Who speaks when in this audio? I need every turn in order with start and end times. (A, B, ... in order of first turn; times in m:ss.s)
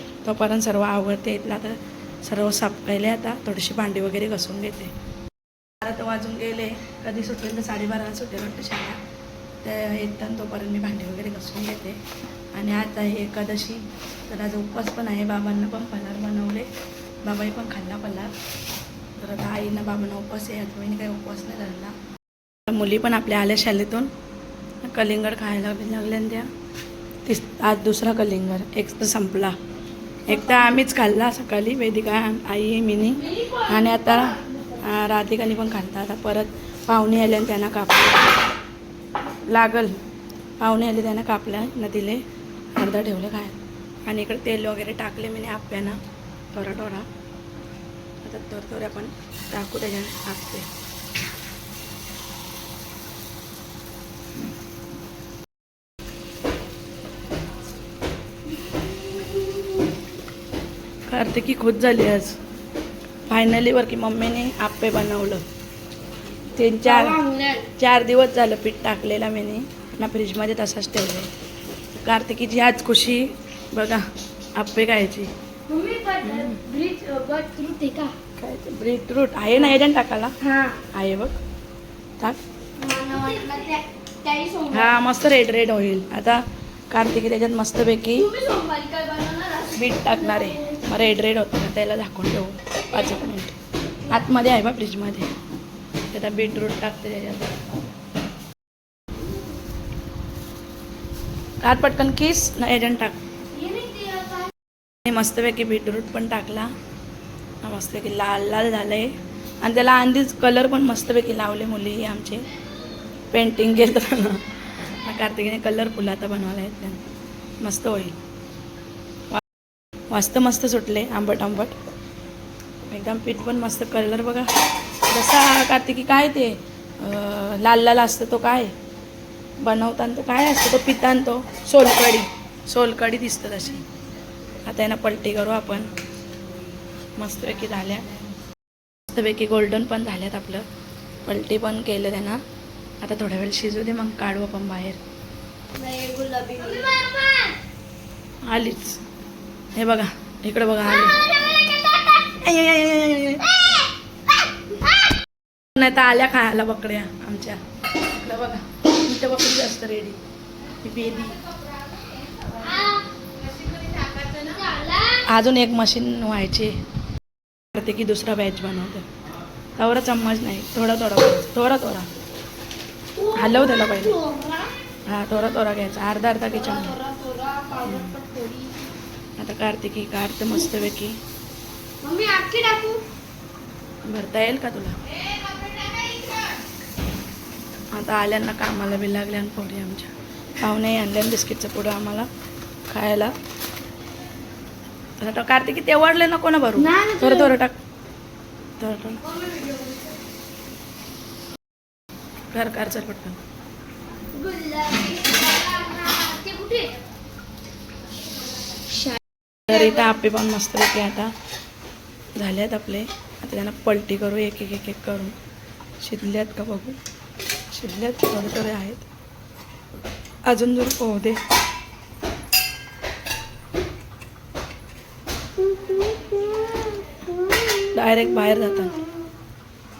0:00.2-0:04.9 A
0:05.8-0:09.0 A
0:09.6-0:12.0 A
0:12.5-0:16.7 A
0:17.2-0:18.3 A
0:19.2-0:22.0 A
0:22.7-0:24.1 A
0:24.8-0:26.5 A
0:27.2-0:29.6 A
0:30.3-0:38.2 A
0:33.2-0:34.9 B
0:39.5-0:40.0 A
0:40.6-0:42.2 A
0:42.8-0:46.0 A
0:46.5-0:47.1 A
0:48.2-0:50.7 A
1:01.1-1:02.4 A
1:03.3-1:05.4 A
1:06.5-1:07.2 A
1:06.8-1:07.7 B
1:07.7-1:11.3 A
1:12.0-1:15.3 A
1:15.7-1:18.2 B
1:16.2-1:16.6 A
1:18.4-1:21.4 A
1:20.4-1:20.8 B
1:22.8-1:25.0 B
1:24.7-1:28.3 A
1:28.2-1:30.9 B
1:29.7-1:35.3 A
1:36.1-1:37.6 A
1:41.6-1:43.2 A
1:43.5-1:44.5 B
1:45.0-1:46.7 A
1:47.6-1:52.5 A
1:53.3-1:54.4 A
1:55.0-1:57.0 A
1:57.6-1:58.2 A
2:00.1-2:01.8 A
2:02.9-2:04.5 A
2:05.1-2:08.8 A
2:09.6-2:13.8 A
2:14.6-2:15.9 A
2:17.2-2:18.1 A
2:19.1-2:20.7 A
2:21.3-2:22.4 A
2:23.0-2:25.0 A
2:25.7-2:27.6 B
2:28.5-2:29.0 A
2:29.8-2:31.2 A
2:32.2-2:33.6 A
2:35.7-2:40.2 A
2:40.8-2:41.4 A
2:42.0-2:45.2 B
2:45.2-2:46.8 A
2:47.7-2:49.1 A
2:49.8-2:52.1 A
2:53.2-2:54.7 B
2:53.3-2:54.2 A
2:55.1-2:57.0 A
2:56.5-2:58.9 B
2:57.8-2:58.2 A
2:59.4-3:01.2 A
3:02.0-3:03.0 B
3:04.0-3:05.0 A
3:05.1-3:06.6 B
3:07.9-3:12.3 A
3:12.9-3:13.3 A
3:15.2-3:17.8 A
3:16.8-3:17.6 B
3:18.8-3:19.2 A
3:19.2-3:20.2 B
3:22.5-3:23.4 A
3:24.3-3:27.0 B
3:28.7-3:29.2 B
3:29.7-3:31.3 A
3:32.4-3:35.4 A
3:36.0-3:37.0 A
3:37.7-3:39.1 A
3:40.5-3:41.4 A
3:45.9-3:46.9 B
3:47.9-3:49.0 A